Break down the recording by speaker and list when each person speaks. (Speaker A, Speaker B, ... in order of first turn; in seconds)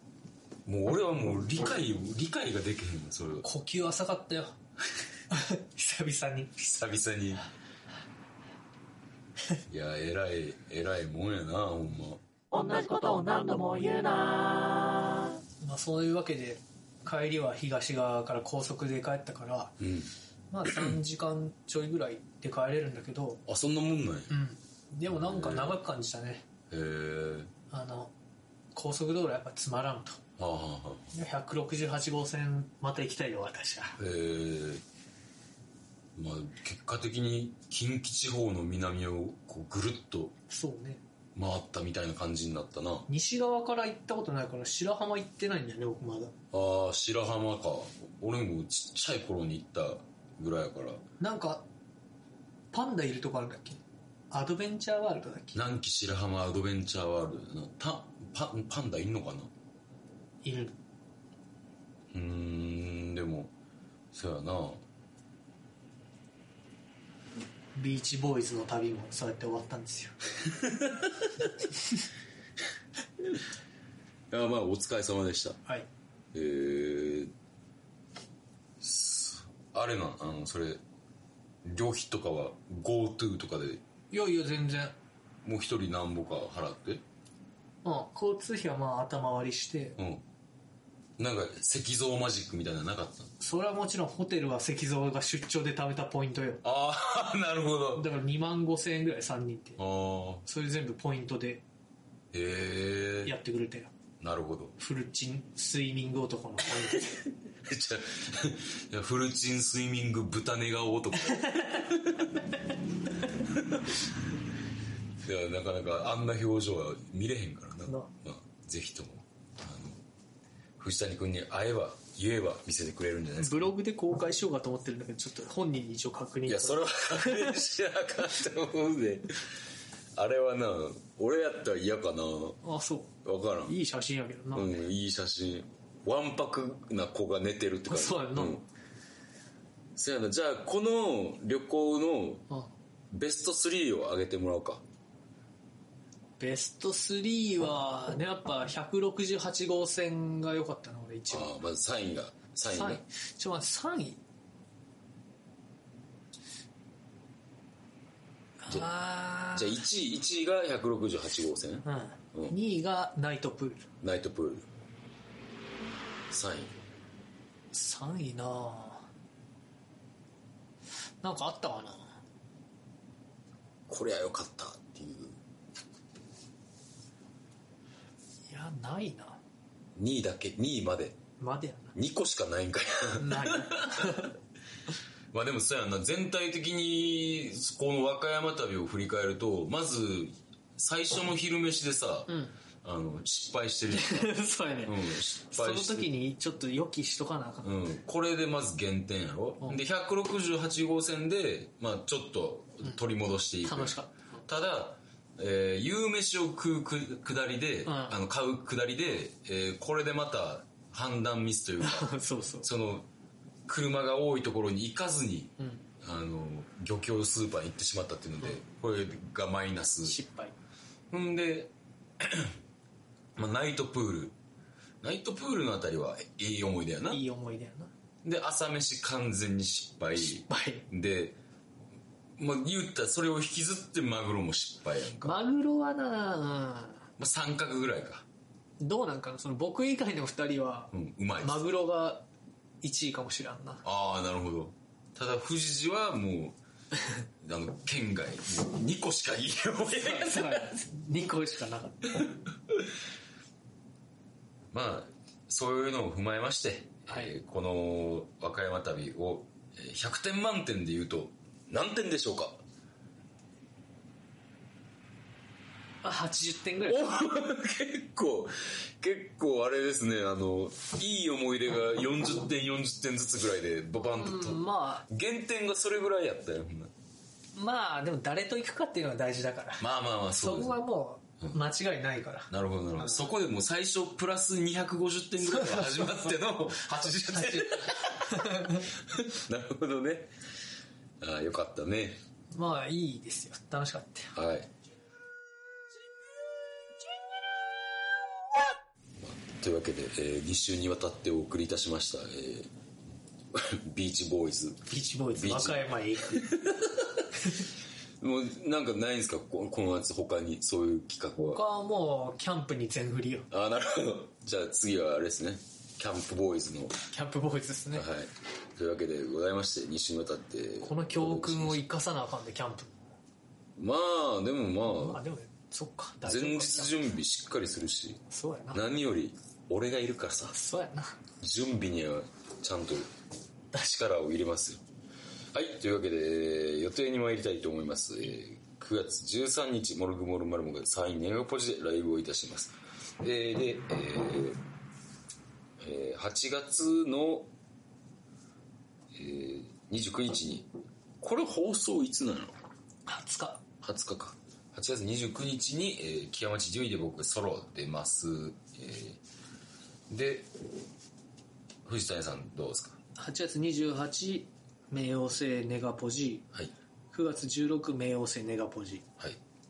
Speaker A: 0.7-3.5, 6.6-7.5, 9.7-12.2, 19.8-20.1, 20.7-20.9, 23.5-24.3, 25.1-25.8, 26.7-27.5, 30.4-31.1, 34.0-34.8, 36.1-40.3, 41.4-43.1, 46.5-51.0, 55.5-59.5, 62.1-63.5, 64.1-64.8, 70.7-71.1, 74.3-75.6, 76.3-77.3, 78.8-80.8, 81.6-83.8, 85.4-87.0, 90.0-90.2, 91.2-93.3, 96.6-98.1, 99.8-100.4, 102.3-103.3, 104.2-104.7, 107.6-112.3, 113.5-114.2, 115.2-120.0, 120.8-123.7, 126.5-129.5, 130.2-132.6, 133.2-133.8, 134.5-138.7, 139.9-142.4, 143.1-144.8, 151.3-153.0, 159.5-162.5, 164.0-164.7, 166.3-166.7, 173.9-175.4, 180.0-181.2, 181.9-184.3, 185.3-192.3, 192.8-194.2, 194.8-196.1, 197.6-212.1, 212.6-213.1, 213.7-220.2, 221.1-222.5, 223.3-224.3, 225.0-227.2, 228.2-231.4, 232.4-235.4, 237.2-238.2, 240.9-241.7, 243.8-246.6, 247.4-250.7, 254.7-262.6, 266.8-276.9, 279.8-280.8, 282.5-290.3, 291.2-292.2, 294.3-294.7, 299.2-302.7, 303.5-307.3, 308.2-311.6, 313.5-317.0, 317.9-321.8, 323.8-325.2, 326.2-330.5, 331.4-333.1, 333.7-334.8, 335.5-344.6, 345.8-347.5, 349.1-350.7, 351.2-352.5, 353.8-359.2, 360.1-360.5, 361.9-363.0
Speaker B: 3.4-4.6, 5.3-6.5, 15.6-19.8, 20.5-23.4, 24.3-26.4, 27.7-28.1, 28.7-30.2, 31.1-34.0, 40.5-41.0, 43.1-46.3, 51.2-51.6, 52.7-55.6, 60.4-60.8, 67.7-70.1, 84.1-85.0, 87.8-90.0, 93.4-96.6, 97.9-99.8, 100.4-101.6, 103.2-103.9, 104.8-107.2, 111.3-111.7, 123.4-127.6, 132.6-134.8, 137.9-138.6, 146.4-151.6, 152.7-154.2, 158.6-159.8, 161.8-163.9, 167.7-169.1, 171.2-172.2, 178.5-179.4, 181.4-181.9, 183.2-184.3, 192.3-192.5, 193.9-197.8, 203.6-204.4, 207.8-208.2, 211.8-212.7, 215.6-215.8, 220.1-220.6, 227.1-227.9, 230.2-230.9, 235.2-237.1, 238.8-242.2, 242.8-243.8, 249.9-252.3, 266.0-267.1, 274.0-275.1, 277.6-283.3, 285.4-286.2, 287.3-288.9, 292.5-294.4, 304.9-306.4, 311.5-313.5, 317.1-318.1, 320.8-323.0, 324.8-327.0, 328.3-328.8, 330.5-331.2, 353.1-353.6, 363.2-366.4, 367.1-369.1
Speaker C: 12.5-14.9